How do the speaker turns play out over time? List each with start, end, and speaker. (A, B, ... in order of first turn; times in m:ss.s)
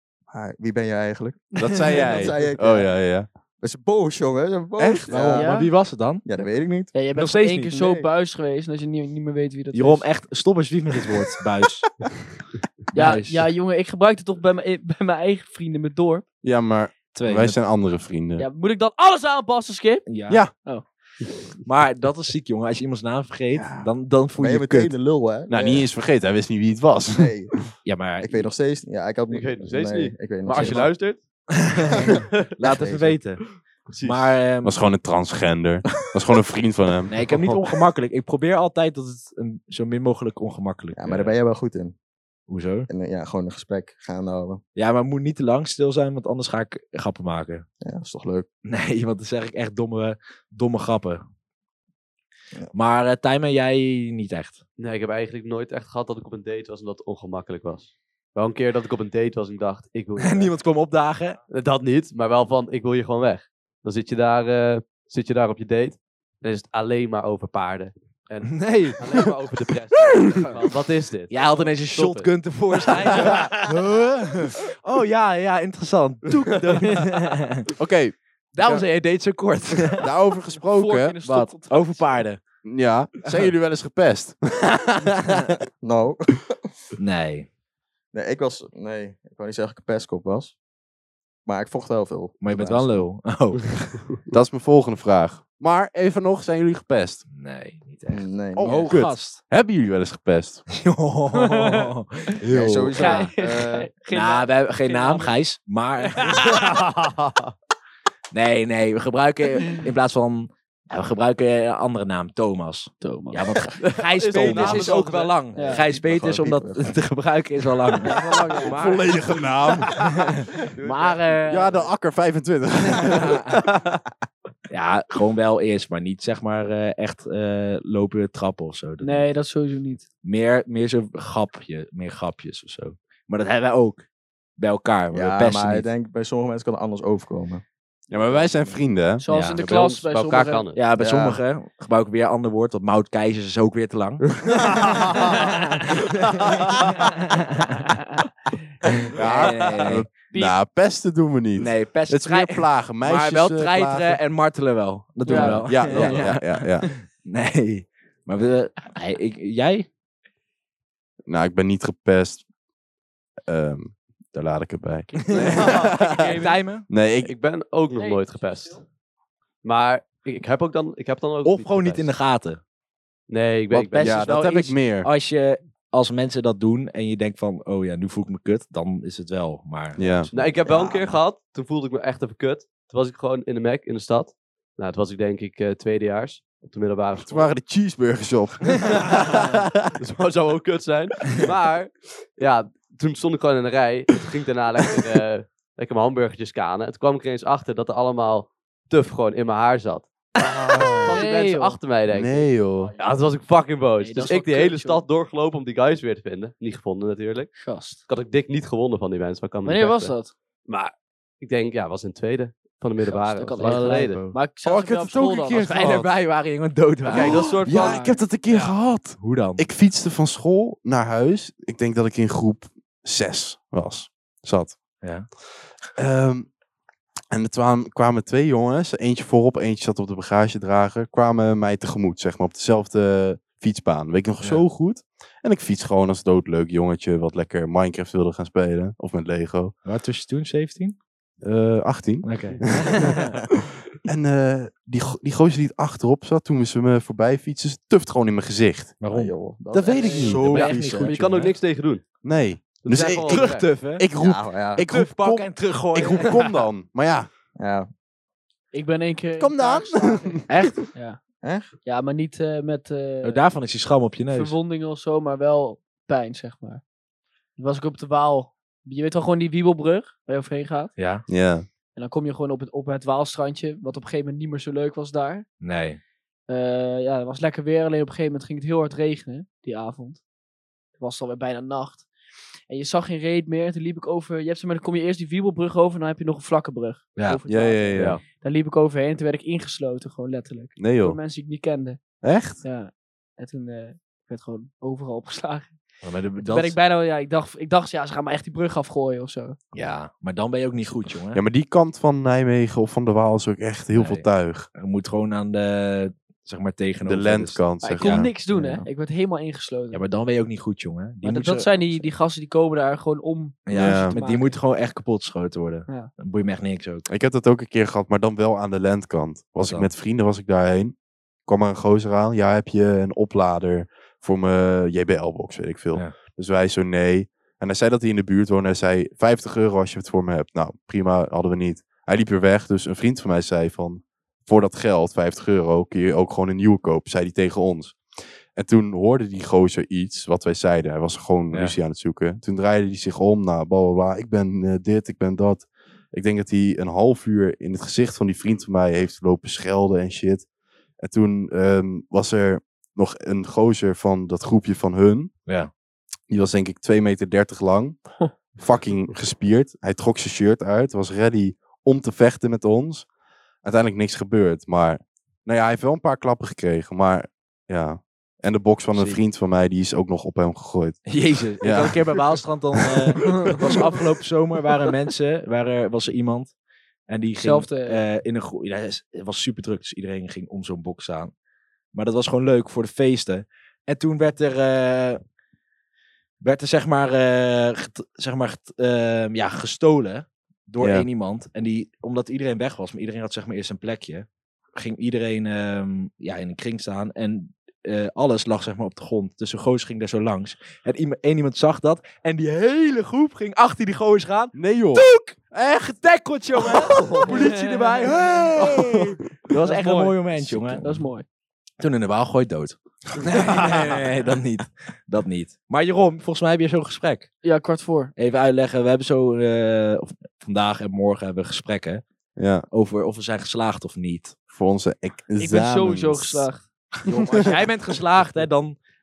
0:00.3-0:02.9 A
0:01.6-0:03.3 B
0:01.6-0:02.3 C
0:03.6-0:05.5 A
0:04.8-0:05.3 B
0:05.1-0:06.2 D
0:05.3-0:05.7 C
0:06.2-0:06.9 A
0:06.9-0:10.0 C
0:07.1-0:07.8 D
0:07.8-0:08.1 A
0:09.7-0:11.9 D
0:12.9-0:16.2 C
0:12.9-0:13.5 D
0:16.4-0:18.5 B
0:17.1-0:17.6 D
0:18.4-0:20.8 C
0:20.1-0:20.4 D
0:21.6-0:24.9 D
0:23.5-0:23.9 B
0:24.4-0:25.9 A
0:25.5-0:27.6 B
0:27.1-0:27.5 A
0:27.8-0:28.5 D
0:28.2-0:30.9 A
0:29.3-0:31.2 E
0:30.5-0:30.9 D
0:31.6-0:33.5 D
0:32.6-0:33.2 A
0:33.9-0:34.3 E
0:34.0-0:34.8 D
0:34.6-0:37.5 B
0:37.1-0:41.3 D
0:40.9-0:41.9 A
0:42.5-0:42.9 D
0:42.9-0:44.6 A
0:44.8-0:47.6 D
0:47.8-0:48.5 A
0:48.6-0:51.2 D
0:52.7-0:54.6 D
0:54.8-1:00.5 E
1:00.2-1:01.4 D
1:01.5-1:13.5 E
1:08.5-1:09.0 D
1:11.3-1:17.6 D
1:13.2-1:13.6 C
1:17.8-1:18.2 B
1:18.5-1:20.0 D
1:20.0-1:21.2 B
1:20.6-1:22.2 C
1:21.2-1:22.4 D
1:22.6-1:25.2 B
1:25.8-1:26.6 A
1:27.0-1:27.5 D
1:28.1-1:30.6 A
1:31.4-1:33.1 A
1:32.4-1:33.7 D
1:34.3-1:37.2 B
1:37.3-1:39.4 D
1:38.1-1:39.0 A
1:38.5-1:40.6 B
1:40.7-1:43.3 D
1:41.3-1:41.9 C
1:42.5-1:43.9 A
1:42.9-1:45.4 C
1:44.1-1:46.6 D
1:46.2-1:46.6 C
1:46.5-1:47.5 E
1:48.3-1:59.2 D
1:53.0-1:53.7 C
1:53.8-1:55.4 E
1:54.4-1:55.0 C
1:55.5-1:55.8 C
1:55.5-1:56.9 A
1:58.0-1:59.0 C
1:58.7-2:00.0 B
1:59.9-2:01.7 D
2:00.8-2:01.8 A
2:01.5-2:03.8 B
2:03.0-2:03.5 D
2:04.7-2:09.3 D
2:09.0-2:10.0 C
2:10.2-2:14.0 D
2:14.6-2:15.9 D
2:15.1-2:17.6 A
2:18.1-2:19.3 B
2:19.2-2:20.7 C
2:19.3-2:19.9 D
2:19.6-2:20.8 E
2:20.7-2:24.3 D
2:21.0-2:21.4 A
2:24.7-2:25.4 A
2:25.1-2:28.0 D
2:29.1-2:34.2 B
2:29.2-2:30.0 D
2:30.3-2:30.6 C
2:31.6-2:39.9 D
2:35.2-2:36.2 C
2:35.3-2:36.9 B
2:41.2-2:42.4 B
2:43.4-2:47.3 B
2:45.1-2:46.6 C
2:45.2-2:45.7 D
2:46.3-2:46.8 D
2:47.2-2:48.8 E
2:47.9-2:48.8 C
2:49.6-2:52.1 E
2:51.4-2:52.6 D
2:53.3-2:54.2 E
2:53.7-3:01.1 D
2:54.0-2:55.1 B
3:00.0-3:00.3 B
3:00.3-3:07.5 E
3:07.2-3:09.9 B
3:09.1-3:27.5 E
3:20.4-3:21.2 B
3:21.1-3:21.8 C
3:22.1-3:22.9 B
3:24.0-3:25.0 C
3:27.5-3:28.0 C
3:28.1-3:30.1 E
3:29.6-3:30.3 C
3:30.6-3:34.2 E
3:33.1-3:36.0 C
3:33.5-3:34.4 D
3:34.6-3:36.1 B
3:35.5-3:37.5 D
3:37.1-3:38.1 E
3:37.1-3:45.0 B
3:37.1-3:38.2 C
3:38.5-3:39.7 D
3:45.0-3:45.3 D
3:45.9-3:46.5 B
3:47.3-3:59.8 B
3:59.8-4:01.0 D
4:01.4-4:09.0 B
4:02.2-4:03.3 D
4:09.0-4:11.5 D
4:09.1-4:11.2 A
4:09.7-4:10.5 B
4:10.0-4:10.4 C
4:10.5-4:12.0 E
4:12.2-4:17.3 B
4:12.8-4:13.7 E
4:13.0-4:14.1 D
4:14.2-4:14.8 A
4:14.8-4:16.4 D
4:17.6-4:17.9 A
4:18.7-4:20.4 C
4:19.4-4:20.7 B
4:20.5-4:20.8 D
4:20.9-4:21.2 C
4:21.4-4:21.7 A
4:21.8-4:23.4 C
4:23.2-4:24.6 D
4:24.3-4:26.8 C
4:27.6-4:30.9 C
4:31.0-4:31.2 D
4:31.3-4:31.6 B
4:31.9-4:35.4 C
4:35.6-4:36.0 D
4:36.5-4:40.2 C
4:40.9-4:42.1 C
4:42.7-4:52.0 C
4:47.5-4:48.2 B
4:47.9-4:48.2 E
4:50.8-4:51.2 B
4:52.2-4:52.6 B
4:52.6-4:55.8 C
4:56.0-4:56.8 D
4:56.4-4:59.6 C
4:59.7-5:01.4 D
5:01.3-5:04.7 B
5:03.9-5:08.3 D
5:07.0-5:08.3 B
5:07.8-5:10.0 C
5:08.5-5:08.8 A
5:09.9-5:12.1 D
5:11.2-5:14.6 C
5:13.6-5:17.1 D
5:13.7-5:14.2 B
5:17.1-5:20.9 B
5:19.6-5:19.9 D
5:21.4-5:38.0 B
5:38.5-5:50.5 B
5:51.0-5:55.3 B
5:56.3-6:03.1 B
6:03.6-6:12.9 B
6:08.9-6:09.2 D
6:11.1-6:16.5 D
6:17.1-6:21.3 D
6:17.4-6:18.0 C
6:21.9-6:25.2 D
6:26.4-6:51.0 D
6:30.8-6:31.1 B
6:44.5-6:45.1 B
6:47.2-6:47.8 C
6:48.6-6:49.0 B
6:49.6-6:51.2 C
6:50.5-6:50.9 B
6:51.8-6:57.3 D
6:57.4-6:58.1 C
6:58.2-7:02.0 D
7:02.4-7:02.6 B
7:02.7-7:04.4 D
7:04.5-7:06.5 B
7:05.4-7:06.7 C
7:07.0-7:08.8 D
7:07.2-7:07.5 B